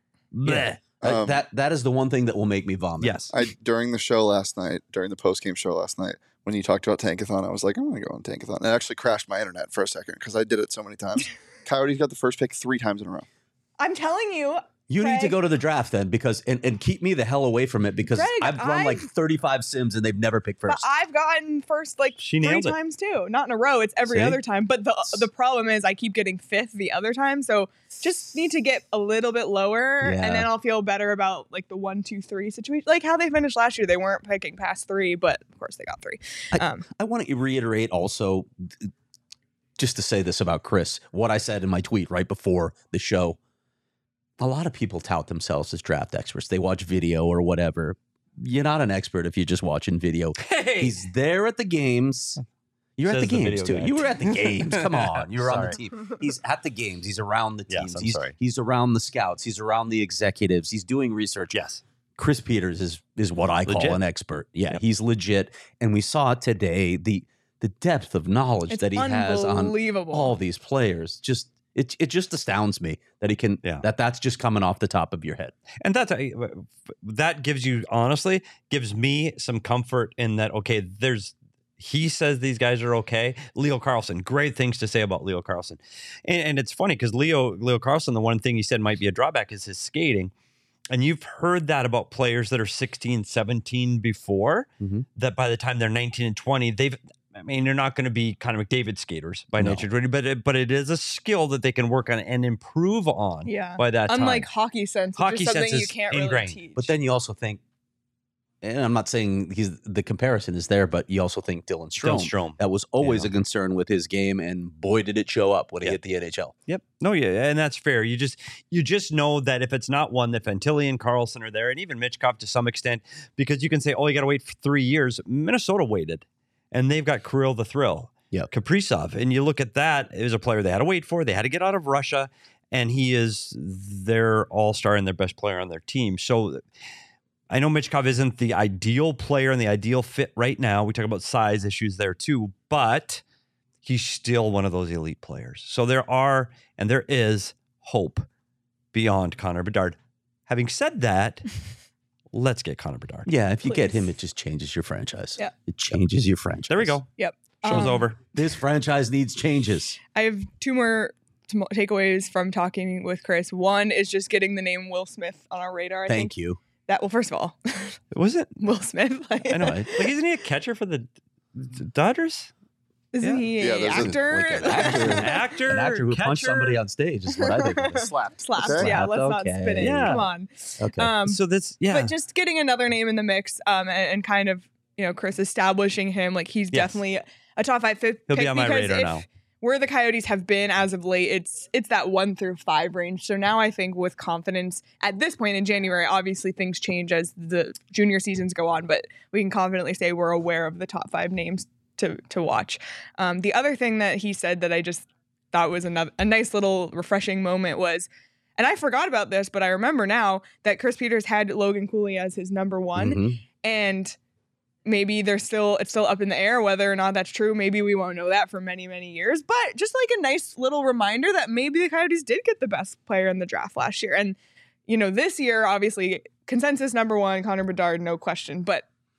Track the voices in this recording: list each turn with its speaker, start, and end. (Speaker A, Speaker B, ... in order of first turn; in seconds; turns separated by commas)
Speaker A: 0.3-3.2, Speaker B: 0.4-0.8, Speaker C: 1.0-1.4, Speaker B: 3.0-3.3, Speaker C: 3.3-13.3, Speaker D: 13.8-15.3, Speaker A: 14.9-20.9, Speaker D: 18.1-19.1, Speaker D: 20.7-36.9, Speaker B: 22.2-22.8, Speaker A: 24.1-24.4, Speaker A: 30.0-30.5, Speaker A: 36.5-38.9, Speaker A: 39.8-43.4, Speaker A: 44.4-52.4, Speaker B: 50.4-51.0, Speaker A: 53.0-61.5, Speaker B: 53.1-55.8, Speaker B: 57.7-58.3, Speaker B: 61.5-61.8, Speaker A: 62.2-75.5, Speaker B: 63.7-64.0, Speaker D: 68.7-70.3, Speaker B: 75.8-90.3, Speaker B: 90.9-104.5, Speaker A: 94.8-95.1, Speaker A: 99.6-99.8, Speaker D: 103.5-106.9, Speaker B: 105.2-106.6, Speaker A: 106.8-107.6, Speaker A: 108.6-116.5, Speaker B: 112.0-113.3, Speaker B: 116.7-136.6, Speaker B: 137.5-143.2, Speaker B: 143.8-148.3, Speaker B: 148.9-150.0, Speaker B: 150.5-151.6, Speaker B: 152.3-153.3, Speaker A: 153.3-157.0, Speaker D: 153.7-154.0, Speaker B: 156.7-157.1, Speaker D: 157.2-158.1, Speaker B: 157.6-158.2, Speaker A: 157.7-160.0, Speaker D: 160.2-166.3, Speaker A: 166.1-166.6, Speaker D: 166.9-168.0, Speaker B: 168.1-168.6, Speaker D: 168.6-170.1, Speaker B: 169.5-172.5, Speaker D: 173.1-175.4, Speaker C: 173.6-175.3, Speaker A: 173.9-180.2, Speaker B: 175.0-176.8, Speaker D: 177.3-181.4, Speaker C: 178.0-179.0, Speaker B: 179.8-180.2, Speaker A: 180.8-181.1, Speaker B: 181.3-182.1, Speaker D: 181.9-214.2, Speaker B: 186.7-187.0, Speaker B: 188.3-189.2, Speaker A: 213.0-213.4, Speaker D: 214.8-224.4, Speaker D: 224.9-228.8